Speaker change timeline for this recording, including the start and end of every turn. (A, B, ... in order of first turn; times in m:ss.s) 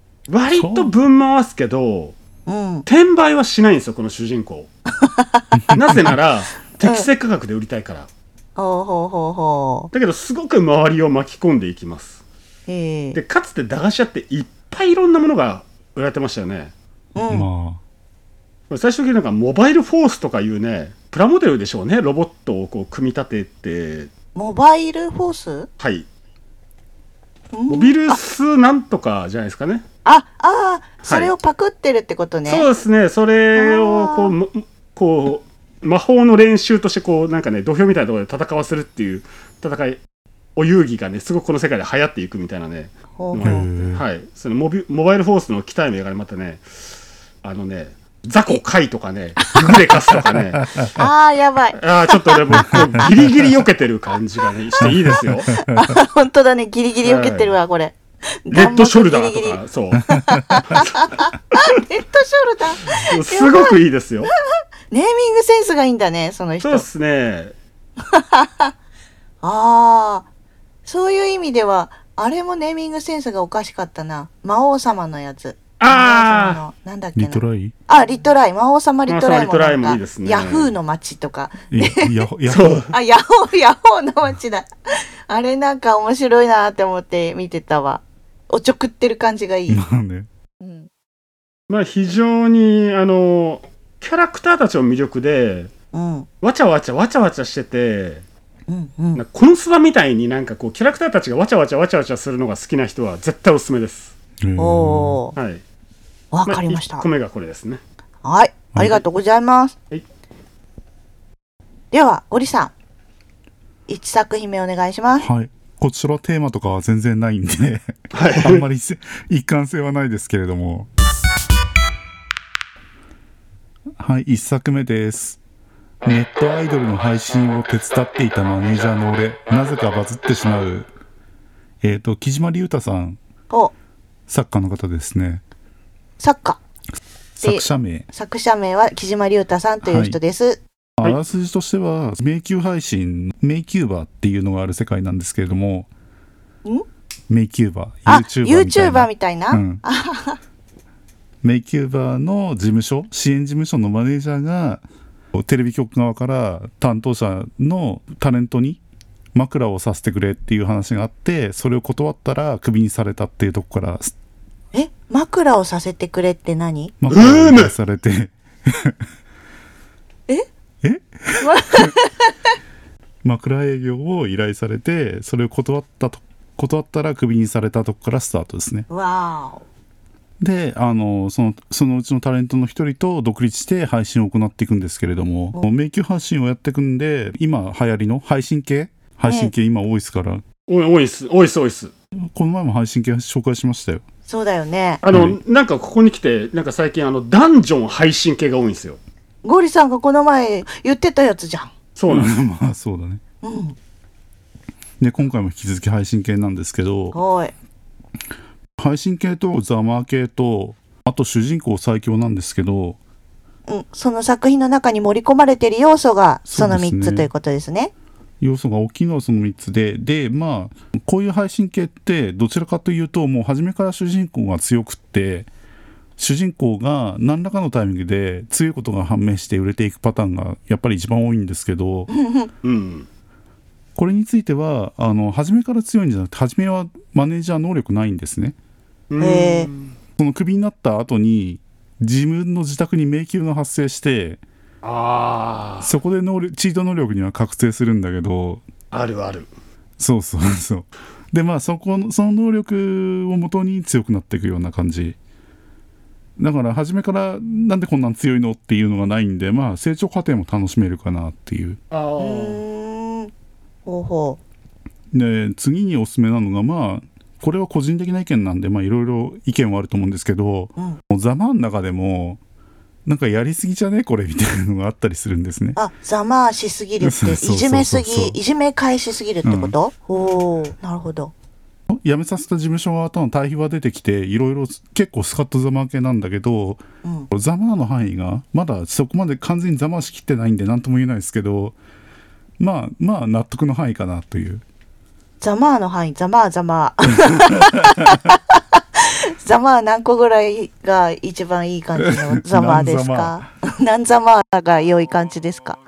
0:00.3-0:02.2 A
0:00.6-0:00.9 B
0:02.4-0:02.8 C
0:02.8-0:04.7 A
0:05.0-0:05.6 C
0:05.5-0:06.0 B
0:05.7-0:08.1 A
0:08.6-0:09.9 C
0:09.9-0:12.2 A
0:12.7-0:13.2 C
0:13.1-0:16.7 A
0:17.2-0:17.5 C
0:17.2-0:17.8 B
0:18.7-0:24.1 A
0:24.3-0:25.7 C
0:25.8-0:26.1 A
0:27.5-0:28.2 C
0:27.7-0:29.8 A
0:30.0-0:32.7 C
0:31.0-0:31.3 A
0:32.5-0:40.0 A
0:33.6-0:34.3 C
0:40.6-0:46.6 A
0:43.2-0:43.7 C
0:43.4-0:44.0 B
0:47.4-0:50.8 A
0:49.4-0:49.7 C
0:50.9-0:53.1 C
0:51.8-0:55.5 A
0:54.8-0:55.9 B
0:55.5-1:03.7 C
0:57.0-0:57.5 A
0:58.5-1:00.1 A
1:02.9-1:04.3 A
1:04.9-1:06.8 C
1:06.6-1:07.5 A
1:08.1-1:08.7 C
1:09.4-1:10.3 C
1:10.8-1:22.1 C
1:15.8-1:16.6 A
1:17.2-1:17.7 B
1:19.1-1:20.7 A
1:21.7-1:22.9 B
1:22.5-1:22.9 A
1:22.9-1:24.7 C
1:25.3-1:29.8 C
1:29.7-1:30.3 B
1:30.6-1:30.9 C
1:31.7-1:35.7 A
1:35.9-1:36.3 C
1:36.4-1:38.2 A
1:38.7-1:39.2 C
1:39.2-1:44.1 A
1:44.4-1:45.2 B
1:44.6-1:45.3 C
1:45.3-1:45.6 A
1:46.3-1:47.0 C
1:46.4-1:47.8 A
1:48.2-1:49.7 C
1:48.7-1:49.0 B
1:51.9-1:52.7 C
1:53.9-1:55.3 C
1:55.2-2:00.9 B
1:58.1-1:58.6 A
2:04.0-2:05.4 B
2:06.0-2:10.9 B
2:11.8-2:13.2 B
2:14.3-2:15.4 B
2:16.2-2:16.6 C
2:17.4-2:18.1 B
2:17.4-2:20.6 C
2:19.8-2:20.2 B
2:21.0-2:25.9 B
2:27.3-2:29.8 B
2:28.0-2:30.4 C
2:31.4-2:34.8 B
2:35.3-2:38.8 B
2:39.3-2:44.1 B
2:44.7-2:46.9 C
2:47.0-2:49.0 B
2:47.1-2:47.7 A
2:50.8-2:51.9 B
2:51.4-2:52.3 C
2:53.2-2:58.9 B
2:58.9-2:59.6 C
3:00.4-3:10.4 B
3:09.3-3:09.5 C
3:10.7-3:11.9 A
3:12.2-3:14.0 B
3:14.3-3:15.0 C
3:15.0-3:19.0 A
3:15.1-3:15.4 B
3:19.4-3:21.7 C
3:22.0-3:22.3 A
3:22.1-3:23.2 B
3:23.4-3:23.8 C
3:25.0-3:27.2 B
3:27.1-3:27.5 C
3:28.8-3:33.0 B
3:33.7-3:37.9 C
3:36.5-3:37.3 B
3:38.4-3:45.5 B
3:46.2-3:52.1 B
3:52.1-3:52.5 C
3:52.6-3:53.1 A
3:54.0-3:58.6 B
3:59.1-3:59.9 A
3:59.2-3:59.7 C
4:00.2-4:04.4 B
4:04.8-4:05.9 A
4:05.8-4:08.6 B
4:08.9-4:09.5 A
4:10.0-4:15.2 B
4:16.4-4:21.8 B
4:21.9-4:22.6 A
4:22.2-4:23.3 C
4:23.8-4:24.4 C
4:25.1-4:32.4 B
4:33.0-4:35.8 B
4:35.8-4:41.3 C
4:37.0-4:38.4 B
4:39.4-4:39.7 B
4:41.9-4:51.8 B
4:47.0-4:47.3 C
4:52.6-4:54.6 B
4:55.4-5:05.8 C
4:57.3-4:58.2 B
5:02.0-5:03.5 B